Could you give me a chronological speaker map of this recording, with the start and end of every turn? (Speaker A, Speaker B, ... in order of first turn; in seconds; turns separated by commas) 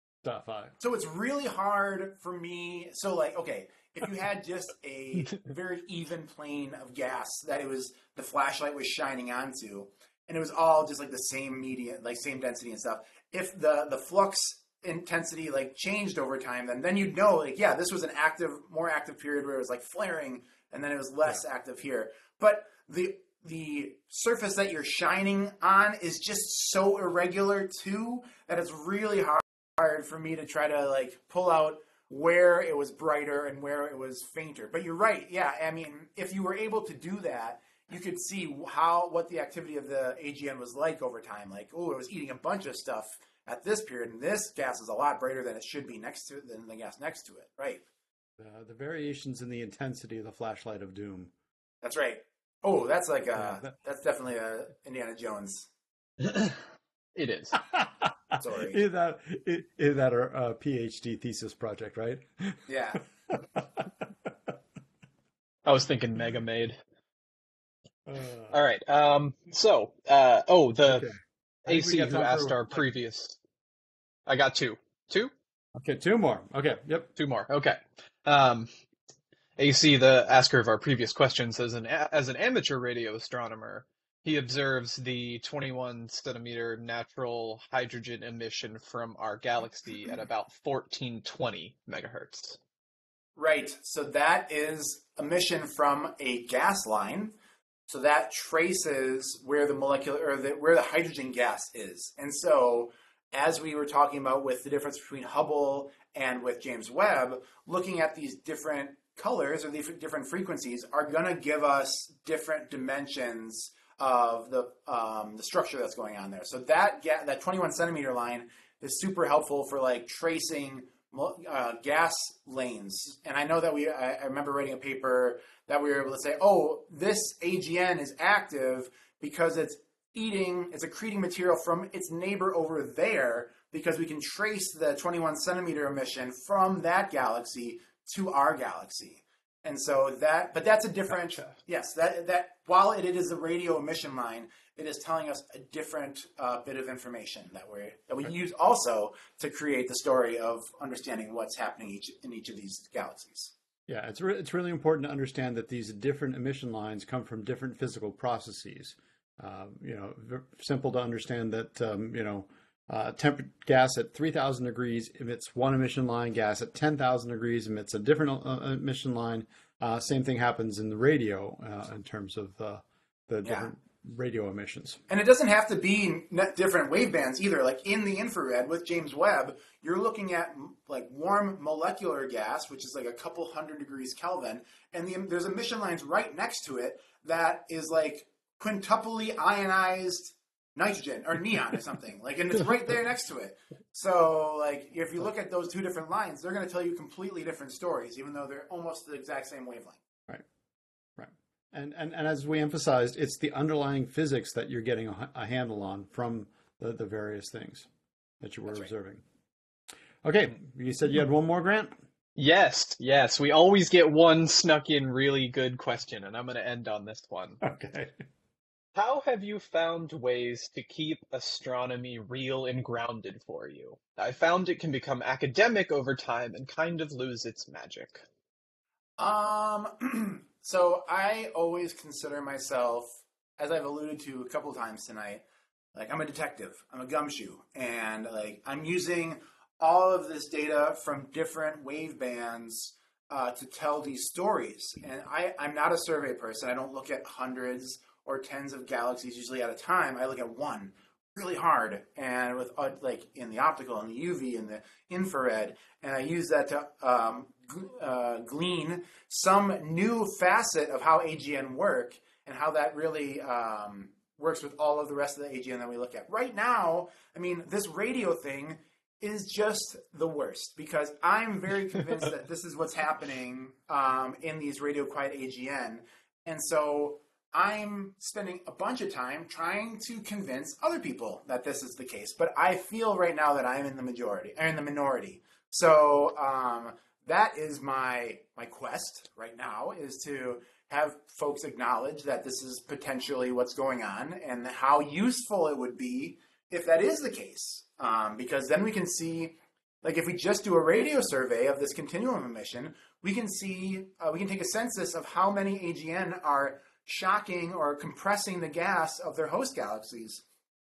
Speaker A: 0.2-0.8, Speaker B: 0.8-47.8, Speaker A: 48.4-51.3, Speaker B: 51.8-55.7, Speaker A: 53.4-53.7, Speaker C: 56.2-56.5, Speaker C: 57.1-57.6, Speaker A: 57.6-62.6, Speaker B: 58.4-58.8, Speaker B: 62.7-63.0, Speaker C: 65.6-66.8, Speaker A: 68.1-68.5, Speaker C: 68.5-71.0, Speaker A: 70.9-72.7, Speaker C: 71.7-73.4, Speaker C: 74.2-75.3, Speaker A: 75.8-77.1, Speaker C: 77.2-78.7, Speaker C: 79.6-92.6, Speaker B: 93.3-97.3, Speaker B: 97.9-153.5, Speaker A: 153.9-175.0, Speaker B: 173.4-173.7, Speaker B: 175.1-200.0, Speaker A: 201.2-207.9, Speaker A: 208.4-209.2, Speaker A: 210.2-211.9, Speaker C: 212.3-217.6, Speaker A: 217.6-218.1, Speaker C: 218.9-228.2, Speaker B: 229.2-235.4, Speaker B: 235.9-310.4